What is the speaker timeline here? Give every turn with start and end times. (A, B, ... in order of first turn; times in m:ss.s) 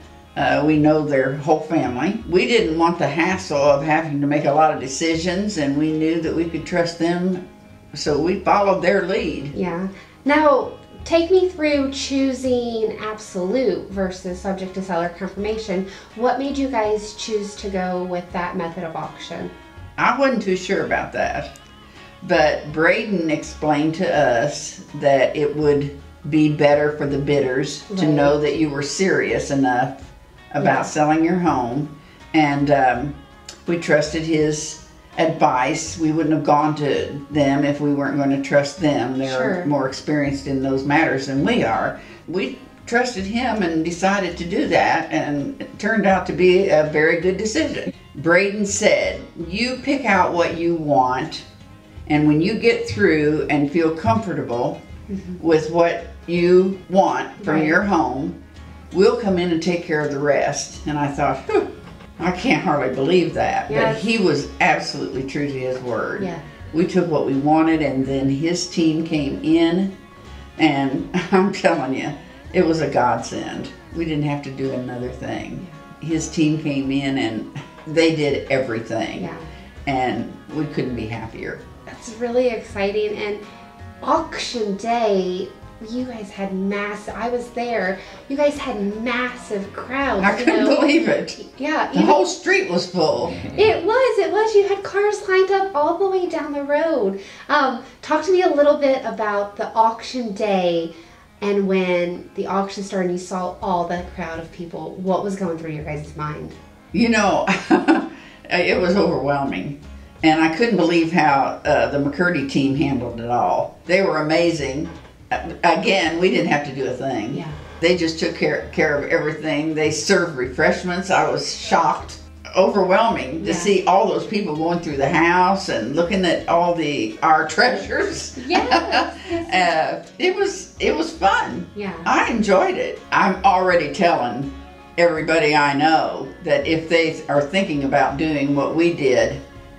0:00.4-0:07.4 A
0:08.0-0:09.5 A
0:09.5-0:19.5 B
0:20.0-0:21.5 A
0:22.2-0:51.4 A
0:27.9-0:28.3 B
0:30.6-0:30.9 B
0:39.2-0:39.7 B
0:52.1-0:54.8 A
0:55.1-0:55.4 B
0:55.4-0:58.3 A
0:57.4-0:57.8 B
0:58.9-1:09.9 A
1:03.7-1:04.0 B
1:06.2-1:06.4 B
1:10.6-1:19.3 A
1:19.2-1:19.4 B
1:19.9-1:21.6 A
1:21.9-1:23.4 B
1:24.0-1:30.9 B
1:30.2-1:31.4 A
1:31.4-1:32.2 B
1:31.9-1:33.4 A
1:33.4-1:46.6 B
1:46.9-2:19.4 A
2:03.4-2:03.7 B
2:08.4-2:09.7 B
2:11.8-2:12.1 B